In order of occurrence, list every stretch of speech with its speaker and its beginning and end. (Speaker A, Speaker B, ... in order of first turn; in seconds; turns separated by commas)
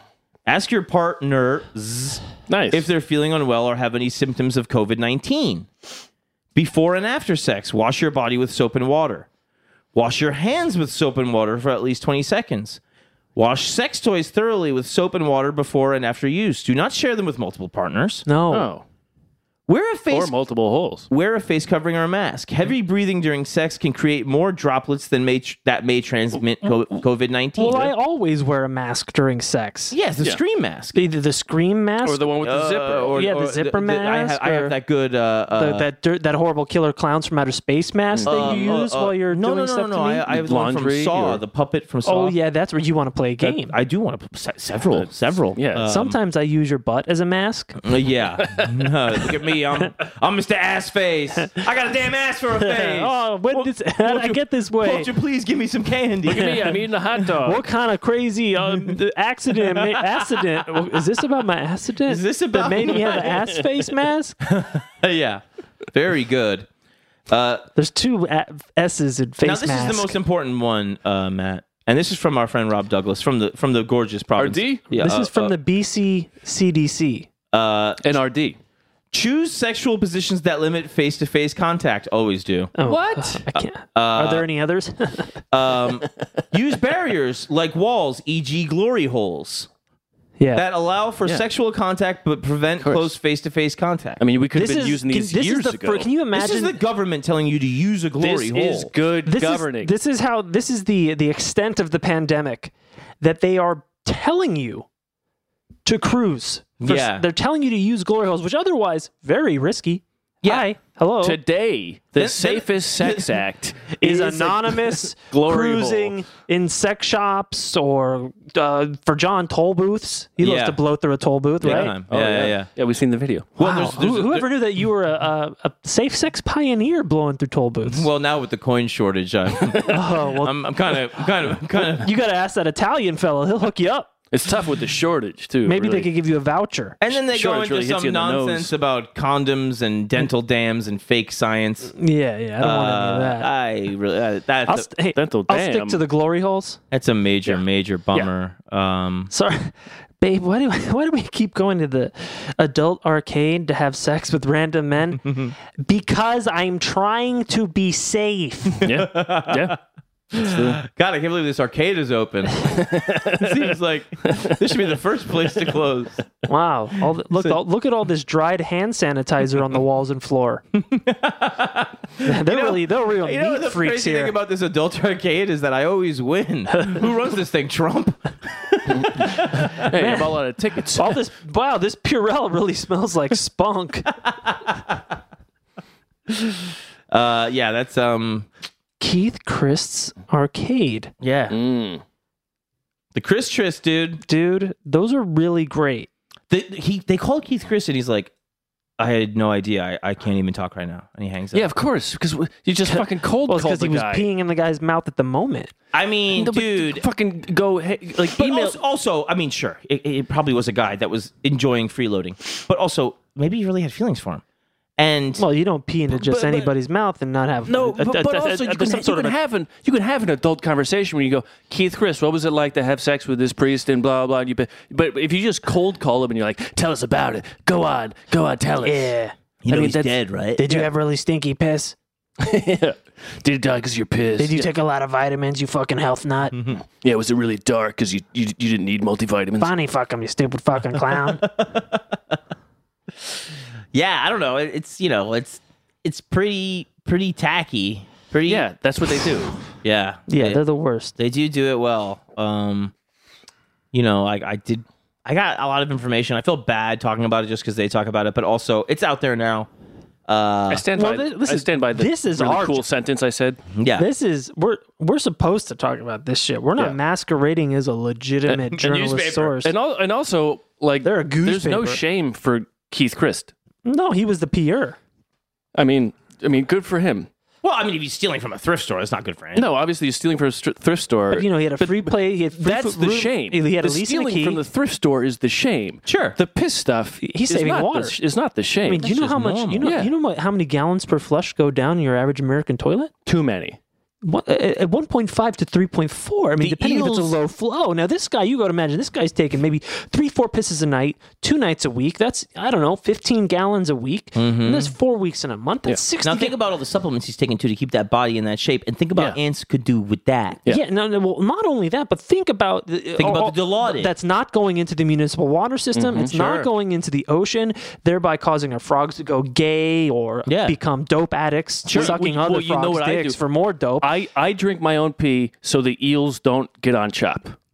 Speaker A: 0.5-5.7, Speaker B: 2.5-2.9, Speaker A: 6.5-9.3, Speaker A: 9.9-12.8, Speaker A: 13.3-18.2, Speaker C: 18.2-18.7, Speaker B: 18.5-18.8, Speaker A: 19.7-20.3, Speaker B: 20.1-21.1, Speaker A: 21.1-27.9, Speaker C: 27.6-29.9, Speaker A: 29.9-31.0, Speaker C: 30.9-32.3, Speaker B: 32.0-33.2, Speaker A: 32.4-35.9, Speaker C: 33.1-34.7, Speaker C: 35.5-40.3, Speaker B: 38.1-38.7, Speaker A: 38.2-42.4, Speaker B: 40.3-41.4, Speaker C: 42.0-43.7, Speaker A: 43.4-46.2, Speaker B: 44.9-45.9, Speaker C: 45.8-47.8, Speaker A: 47.8-56.7, Speaker C: 52.5-55.1, Speaker B: 56.3-57.6, Speaker C: 57.4-64.4, Speaker A: 59.6-60.8, Speaker A: 62.0-63.4, Speaker B: 63.2-63.6, Speaker A: 64.4-66.7, Speaker A: 67.3-67.7, Speaker C: 67.7-70.2, Speaker A: 69.4-75.5, Speaker B: 74.3-74.8, Speaker C: 74.9-77.3, Speaker A: 77.5-78.1, Speaker B: 78.0-78.6, Speaker A: 79.1-82.7, Speaker C: 82.8-85.4, Speaker B: 82.8-83.4, Speaker A: 83.5-84.5, Speaker A: 85.5-89.7, Speaker C: 90.4-90.6, Speaker A: 90.5-94.2, Speaker B: 92.8-93.1, Speaker B: 94.2-96.1, Speaker C: 94.5-96.8, Speaker A: 96.3-98.9, Speaker B: 98.2-99.9, Speaker C: 99.2-104.8, Speaker C: 105.8-111.4, Speaker A: 106.8-107.2, Speaker B: 111.2-116.2, Speaker A: 112.2-113.3, Speaker C: 114.0-121.9, Speaker A: 120.4-120.8, Speaker A: 121.6-122.7, Speaker B: 121.6-123.6, Speaker A: 123.6-124.5, Speaker C: 123.6-128.1, Speaker A: 127.8-132.1, Speaker B: 129.6-130.0, Speaker C: 129.9-130.5, Speaker C: 131.9-134.1, Speaker B: 134.3-136.1, Speaker C: 135.6-137.0, Speaker A: 137.0-141.9, Speaker B: 137.2-138.7, Speaker C: 141.9-143.5, Speaker A: 142.6-144.9, Speaker C: 144.7-146.8, Speaker B: 145.1-146.0, Speaker A: 146.9-149.3, Speaker C: 149.3-158.8, Speaker A: 155.2-155.5, Speaker B: 158.8-159.8, Speaker A: 158.8-159.8, Speaker A: 160.3-166.3, Speaker B: 160.4-160.8, Speaker B: 162.7-163.7, Speaker B: 164.2-164.6, Speaker C: 166.5-170.6, Speaker A: 167.3-167.6, Speaker A: 170.7-179.8, Speaker C: 172.2-174.3, Speaker B: 178.9-181.2, Speaker C: 179.9-180.3, Speaker C: 180.9-184.1, Speaker A: 184.2-185.0, Speaker A: 186.3-188.5, Speaker C: 189.0-191.1, Speaker A: 191.2-191.6, Speaker B: 191.5-192.0, Speaker A: 193.1-194.2, Speaker C: 194.2-196.1, Speaker A: 196.5-198.3, Speaker A: 199.0-201.7, Speaker B: 201.5-204.3, Speaker C: 202.9-205.7, Speaker A: 205.9-207.0, Speaker B: 206.3-208.8, Speaker A: 208.3-214.4, Speaker A: 215.0-215.4, Speaker C: 215.4-219.3, Speaker B: 216.1-216.7, Speaker B: 217.7-229.1, Speaker C: 228.8-231.9, Speaker A: 229.6-230.6, Speaker B: 229.7-230.0, Speaker B: 232.4-234.7, Speaker C: 234.4-236.6, Speaker A: 236.5-236.8, Speaker B: 236.9-239.7, Speaker C: 239.6-241.4, Speaker A: 241.1-242.2, Speaker A: 243.9-248.6, Speaker B: 248.5-249.6, Speaker A: 249.8-250.6, Speaker C: 250.3-251.1, Speaker A: 251.2-252.9, Speaker A: 253.9-259.7, Speaker A: 260.3-260.9, Speaker B: 260.7-263.6, Speaker C: 260.9-262.9, Speaker A: 263.7-264.1, Speaker C: 263.9-269.7, Speaker A: 268.8-269.5, Speaker B: 269.6-273.5, Speaker C: 271.0-272.0, Speaker C: 273.8-275.0, Speaker B: 275.7-277.3, Speaker A: 277.6-279.7, Speaker B: 279.5-289.1, Speaker C: 281.3-284.6, Speaker A: 286.1-286.4, Speaker C: 287.2-288.1, Speaker C: 288.8-293.1, Speaker A: 289.0-289.9, Speaker B: 289.8-290.1, Speaker B: 293.2-293.8, Speaker C: 294.2-306.5, Speaker A: 296.6-297.4, Speaker A: 304.3-304.9, Speaker A: 306.2-310.6, Speaker C: 310.7-324.1, Speaker A: 313.2-314.1, Speaker B: 315.9-316.4, Speaker A: 316.3-316.7, Speaker A: 320.4-320.8, Speaker A: 321.8-322.1, Speaker B: 321.9-323.4, Speaker B: 324.0-327.6